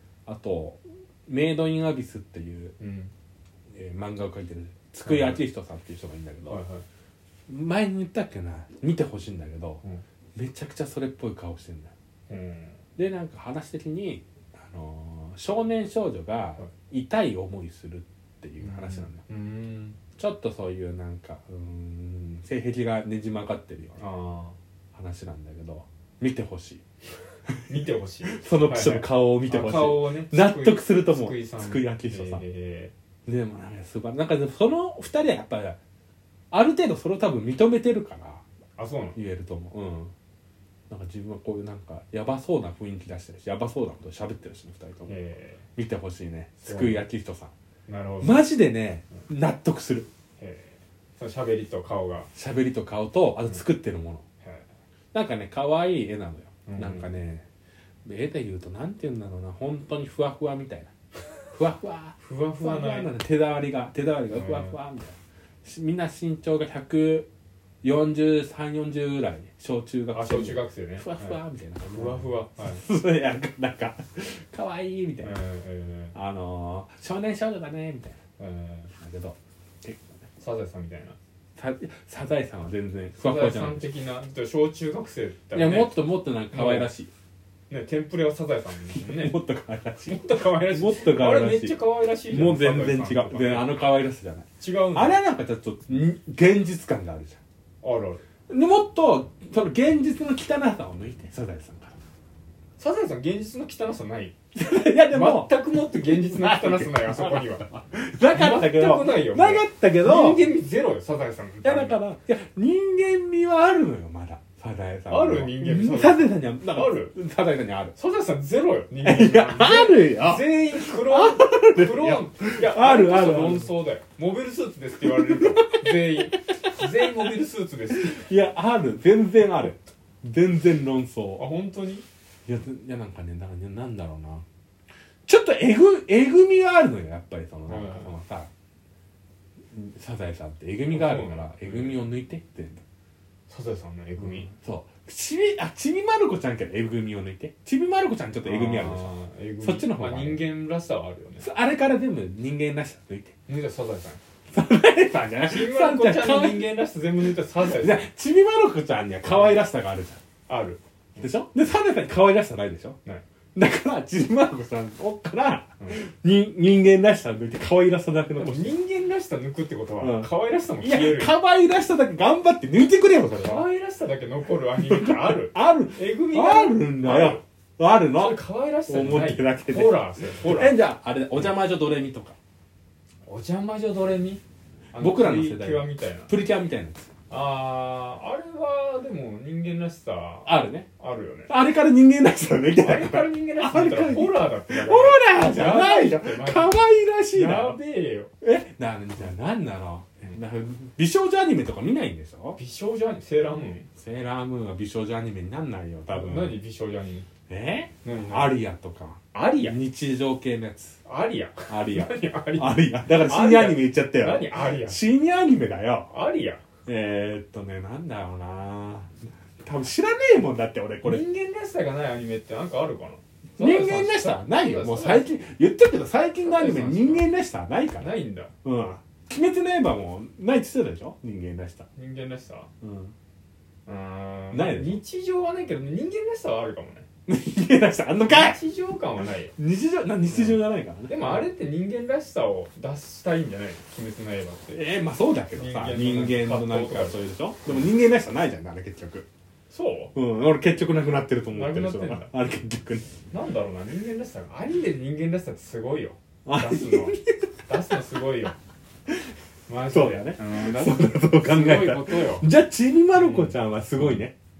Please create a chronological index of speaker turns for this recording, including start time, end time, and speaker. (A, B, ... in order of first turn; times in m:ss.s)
0:00.2-0:02.8 A
0:02.8-0:03.1 B
0:03.7-0:06.6 A
0:05.0-0:05.4 B
0:06.5-0:06.8 B
0:07.5-0:09.8 A
0:10.3-0:11.9 A
0:12.3-0:12.8 B
0:13.0-0:19.2 A
0:18.6-0:20.0 B
0:20.2-0:24.0 A
0:24.0-0:24.6 B
0:24.9-0:26.8 A
0:27.6-0:32.9 B
0:28.3-0:32.4 A
0:33.2-0:35.8 A
0:36.5-0:38.4 A
0:38.8-0:39.2 B
0:39.2-0:40.1 A
0:40.9-0:45.1 A
0:45.1-0:45.6 B
0:45.8-0:47.5 A
0:46.6-0:47.0 B
0:47.9-0:48.4 B
0:48.2-0:50.1 A
0:50.4-0:52.3 B
0:52.3-0:54.2 A
0:54.4-0:54.7 B
0:55.1-0:57.4 A
0:56.6-0:57.2 B
0:58.0-1:00.9 A
1:01.4-1:07.3 A
1:02.2-1:03.1 B
1:04.3-1:04.8 B
1:07.8-1:15.4 A
1:10.1-1:12.8 B
1:15.2-1:16.1 B
1:16.1-1:18.2 A
1:18.4-1:18.9 B
1:19.0-1:20.2 A
1:20.4-1:21.2 B
1:21.6-1:23.9 A
1:23.2-1:26.9 B
1:25.5-1:27.1 A
1:27.7-1:29.4 B
1:28.9-1:37.4 A
1:30.0-1:33.8 B
1:34.6-1:35.2 B
1:37.8-1:38.2 B
1:38.5-1:41.9 A
1:42.8-1:44.4 B
1:44.5-1:50.5 A
1:45.0-1:47.7 B
1:48.3-1:52.0 B
1:51.6-1:57.9 A
1:55.1-1:57.1 B
1:57.9-2:08.3 B
1:59.0-2:03.7 A
2:05.1-2:07.3 A
2:07.9-2:11.5 A
2:11.4-2:12.0 B
2:12.4-2:14.4 A
2:15.2-2:18.5 A
2:17.7-2:18.1 B
2:19.7-2:22.8 A
2:20.9-2:22.0 B
2:23.5-2:24.5 B
2:24.2-2:30.5 A
2:28.4-2:31.5 B
2:31.4-2:33.4 A
2:33.5-2:34.2 B
2:34.5-2:36.8 A
2:35.4-2:38.0 B
2:37.6-2:40.2 A
2:39.2-2:39.6 B
2:40.5-2:41.3 B
2:41.2-2:43.0 A
2:43.5-2:48.7 A
2:48.3-2:51.3 B
2:50.0-2:53.6 A
2:53.3-2:57.4 B
2:54.8-3:02.4 A
2:58.1-3:00.8 B
3:03.2-3:04.4 B
3:04.9-3:06.3 B
3:05.0-3:07.1 A
3:07.3-3:11.5 B
3:10.4-3:10.9 A
3:11.5-3:17.8 A
3:12.7-3:16.8 B
3:17.3-3:18.3 B
3:18.4-3:22.6 A
3:22.6-3:23.9 B
3:24.0-3:26.6 A
3:26.1-3:27.3 B
3:27.5-3:31.0 A
3:28.0-3:28.5 B
3:29.3-3:29.8 B
3:31.0-3:35.0 B
3:31.7-3:36.1 A
3:36.1-3:36.6 B
3:36.8-3:41.2 A
3:41.0-3:45.3 B
3:43.6-3:48.1 A
3:46.4-3:47.3 B
3:48.0-3:48.5 B
3:48.6-3:51.9 A
3:51.9-3:52.7 B
3:52.8-3:53.1 A
3:53.8-3:57.1 B
3:54.5-3:55.0 A
3:57.3-3:58.6 A
3:58.3-3:59.5 B
3:59.5-4:01.5 A
4:00.2-4:04.8 B
4:04.7-4:09.3 A
4:05.5-4:07.9 B
4:09.7-4:10.1 B
4:10.1-4:13.1 A
4:11.5-4:12.3 B
4:13.3-4:18.6 B
4:16.4-4:17.5 A
4:19.7-4:22.5 B
4:19.9-4:24.3 A
4:23.1-4:24.3 B